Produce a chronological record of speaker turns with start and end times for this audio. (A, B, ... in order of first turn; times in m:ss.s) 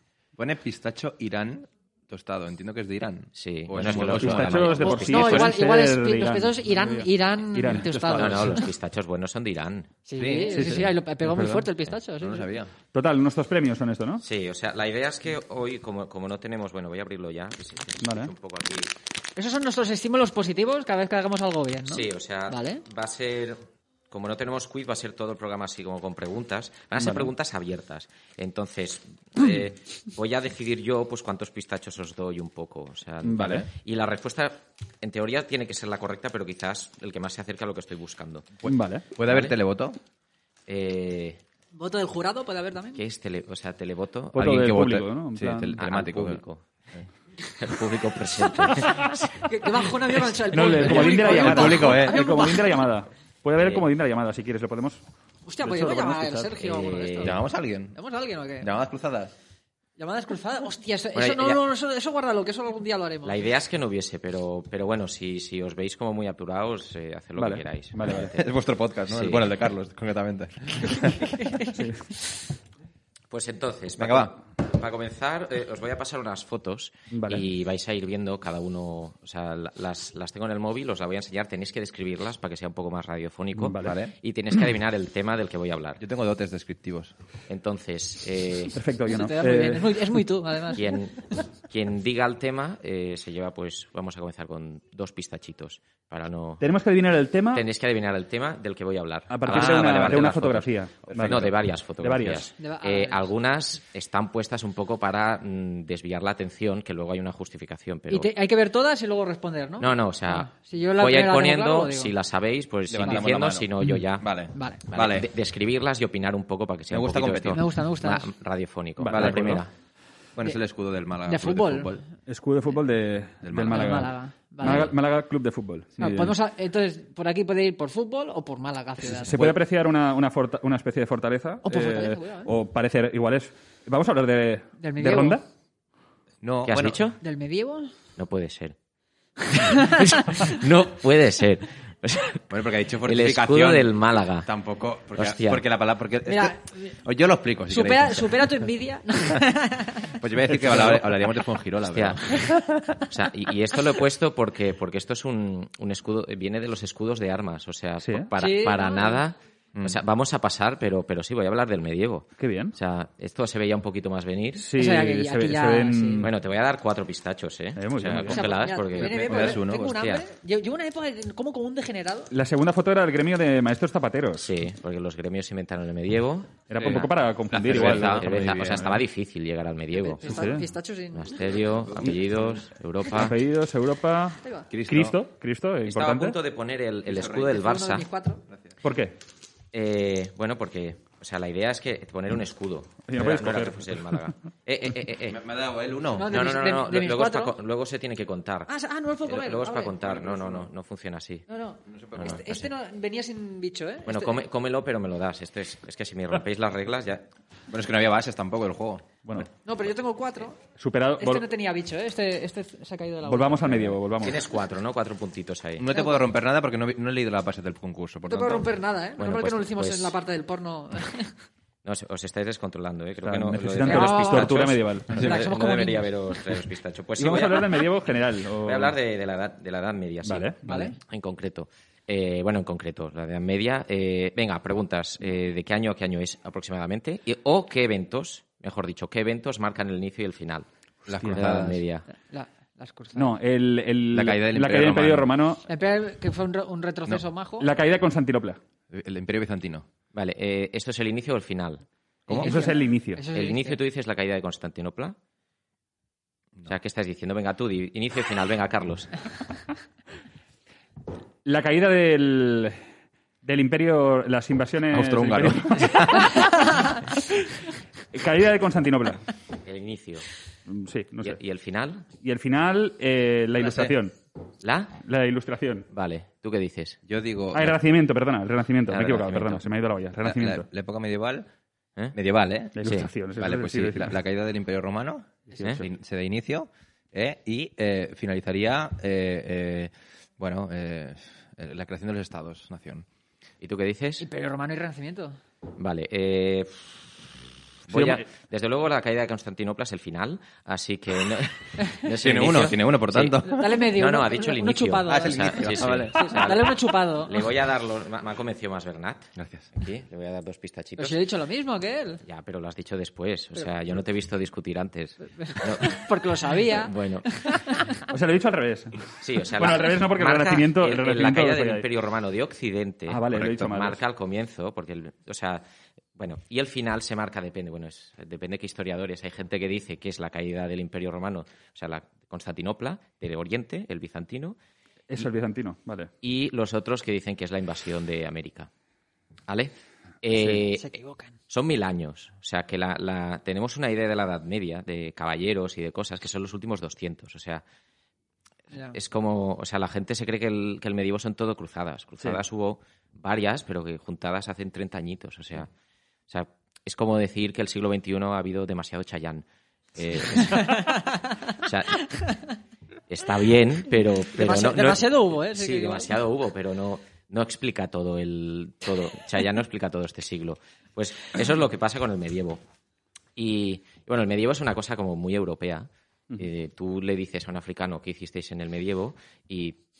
0:00.4-0:05.0 A
0:03.4-0:05.6 B
0:03.8-0:08.6 C
0:04.8-0:08.6 D
0:07.6-0:08.6 A
0:08.1-0:09.9 B
0:10.0-0:12.5 D
0:10.2-0:10.7 A
0:10.4-0:11.7 C
0:12.2-0:12.7 A
0:12.9-0:14.2 C
0:14.2-0:18.9 B
0:18.0-0:18.3 C
0:19.4-0:22.8 D
0:21.9-0:38.6 B
0:27.0-0:27.3 C
0:33.2-0:33.7 C
0:38.6-0:40.0 A
0:38.7-0:39.1 C
0:39.2-0:39.6 B
0:40.7-0:41.4 B
0:41.7-0:43.0 D
0:43.0-0:44.5 B
0:44.3-0:45.8 C
0:44.4-0:46.4 A
0:45.7-0:46.7 B
0:47.5-0:49.5 B
0:48.5-0:52.8 D
0:50.5-0:55.0 C
0:50.8-0:52.3 A
0:53.6-0:53.9 B
0:55.5-0:57.4 D
0:55.6-0:56.6 C
0:56.6-0:57.4 B
0:57.2-0:58.0 A
0:58.0-0:58.7 D
0:58.6-0:59.4 A
1:00.0-1:03.5 D
1:01.2-1:01.6 B
1:03.2-1:08.5 B
1:07.4-1:08.3 C
1:08.1-1:11.6 A
1:09.1-1:09.5 B
1:11.0-1:11.8 D
1:11.8-1:12.0 C
1:13.3-1:26.0 B
1:14.0-1:14.4 A
1:17.1-1:17.4 C
1:23.6-1:24.0 C
1:23.8-1:24.1 A
1:26.0-1:27.2 A
1:27.5-1:28.8 B
1:28.7-1:30.2 C
1:29.1-1:30.9 D
1:30.7-1:36.6 B
1:36.6-1:37.6 C
1:37.5-1:48.3 B
1:39.3-1:42.5 C
1:39.5-1:40.4 A
1:42.6-1:43.3 D
1:48.1-1:52.1 D
1:49.8-1:54.4 B
1:52.9-1:55.3 A
1:54.5-1:54.9 D
1:54.9-1:59.7 B
1:56.9-1:57.7 A
1:57.5-1:58.3 D
1:59.0-1:59.6 C
1:59.1-1:59.6 A
2:00.4-2:02.0 A
2:01.3-2:02.0 D
2:02.3-2:06.4 C
2:03.4-2:04.1 A
2:03.7-2:04.9 D
2:06.0-2:09.5 D
2:09.1-2:15.4 C
2:11.6-2:12.5 D
2:14.8-2:15.4 D
2:16.4-2:17.0 A
2:16.6-2:17.2 B
2:17.2-2:17.9 D
2:18.2-2:18.8 B
2:19.5-2:22.4 B
2:19.5-2:20.4 D
2:22.5-2:28.5 A
2:23.0-2:24.5 B
2:25.2-2:25.6 B
2:26.3-2:27.0 D
2:27.7-2:30.2 D
2:30.1-2:33.1 A
2:30.5-2:31.0 C
2:31.9-2:32.2 B
2:33.1-2:44.7 B
2:38.0-2:38.3 C
2:38.4-2:39.2 D
2:42.4-2:42.8 C
2:44.6-2:46.3 C
2:44.7-2:46.3 D
2:46.2-2:50.2 B
2:47.8-2:48.5 C
2:48.2-2:52.3 D
2:49.0-2:50.0 A
2:52.3-2:54.5 C
2:54.4-2:57.1 B
2:56.7-2:59.0 C
2:56.8-2:59.0 A
2:57.6-3:00.4 B
2:59.9-3:01.8 D
3:00.2-3:00.7 C
3:01.1-3:03.4 B
3:01.8-3:02.6 A
3:03.1-3:06.4 C
3:04.4-3:04.7 D
3:04.7-3:05.2 A
3:05.8-3:08.0 B
3:07.1-3:07.6 A
3:07.4-3:08.4 D
3:08.5-3:08.8 A
3:08.8-3:09.2 C
3:09.7-3:15.4 B
3:13.1-3:14.2 C
3:15.3-3:16.4 A
3:16.1-3:17.6 D
3:16.2-3:18.7 B
3:18.7-3:20.0 D
3:19.2-3:21.5 B
3:20.0-3:20.7 A
3:21.5-3:24.4 D
3:21.9-3:22.4 A
3:22.2-3:22.7 B
3:24.1-3:27.3 B
3:27.7-3:29.1 A
3:29.6-3:30.6 D
3:30.8-3:31.5 C
3:31.2-3:34.0 D
3:33.3-3:34.4 C
3:34.2-3:35.9 B
3:35.8-3:38.7 A
3:35.9-3:36.2 D
3:38.3-3:41.4 D
3:39.2-3:40.2 B
3:41.8-3:47.9 B
3:43.2-3:45.2 C
3:43.8-3:46.1 D
3:45.1-3:45.6 A
3:47.2-3:49.0 C
3:48.6-4:00.7 B
3:50.2-3:50.9 C
3:50.7-3:51.0 D
4:01.1-4:01.8 A
4:01.2-4:02.1 B
4:02.1-4:03.3 D
4:03.2-4:05.6 C
4:04.1-4:05.3 A
4:05.7-4:07.7 D
4:07.6-4:08.6 C
4:08.9-4:09.9 A
4:10.1-4:11.8 B
4:12.3-4:12.5 A
4:12.3-4:13.8 D
4:12.3-4:13.2 C
4:13.3-4:15.2 B
4:16.7-4:19.1 B
4:21.4-4:22.8 C
4:23.4-4:27.2 C
4:24.9-4:26.6 A
4:28.1-4:29.2 C
4:29.6-4:30.3 B
4:30.7-4:31.4 C
4:31.2-4:32.1 B
4:32.2-4:34.1 C
4:33.6-4:33.9 A
4:34.6-4:35.0 B
4:35.0-4:35.9 C
4:35.9-4:37.0 B
4:37.1-4:37.8 A
4:37.5-4:40.7 C
4:38.9-4:39.6 B
4:40.2-4:41.5 A
4:42.1-4:42.8 A
4:42.8-4:44.1 C
4:43.4-4:53.1 A
4:53.6-4:54.3 B
4:54.2-4:55.4 D
4:55.8-4:57.1 B
4:57.9-5:11.2 B
4:57.9-4:58.2 C
5:02.2-5:03.8 A
5:03.4-5:07.4 D
5:05.0-5:06.5 A
5:09.4-5:09.7 A
5:11.0-5:12.2 D
5:12.2-5:16.0 B
5:15.3-5:18.0 D
5:16.6-5:17.4 B
5:18.1-5:21.8 C
5:19.2-5:25.6 B
5:23.1-5:24.0 C
5:26.2-5:34.6 B
5:35.1-5:36.1 C
5:36.2-5:38.7 B
5:39.5-5:40.8 B
5:40.6-5:41.4 D
5:41.5-5:47.6 B
5:48.7-5:49.0 D
5:48.9-5:55.7 B
5:56.3-6:01.0 B
6:00.4-6:01.5 D
6:01.6-6:02.0 B
6:02.1-6:02.5 D
6:03.1-6:12.6 B
6:04.3-6:06.1 D
6:13.4-6:19.8 B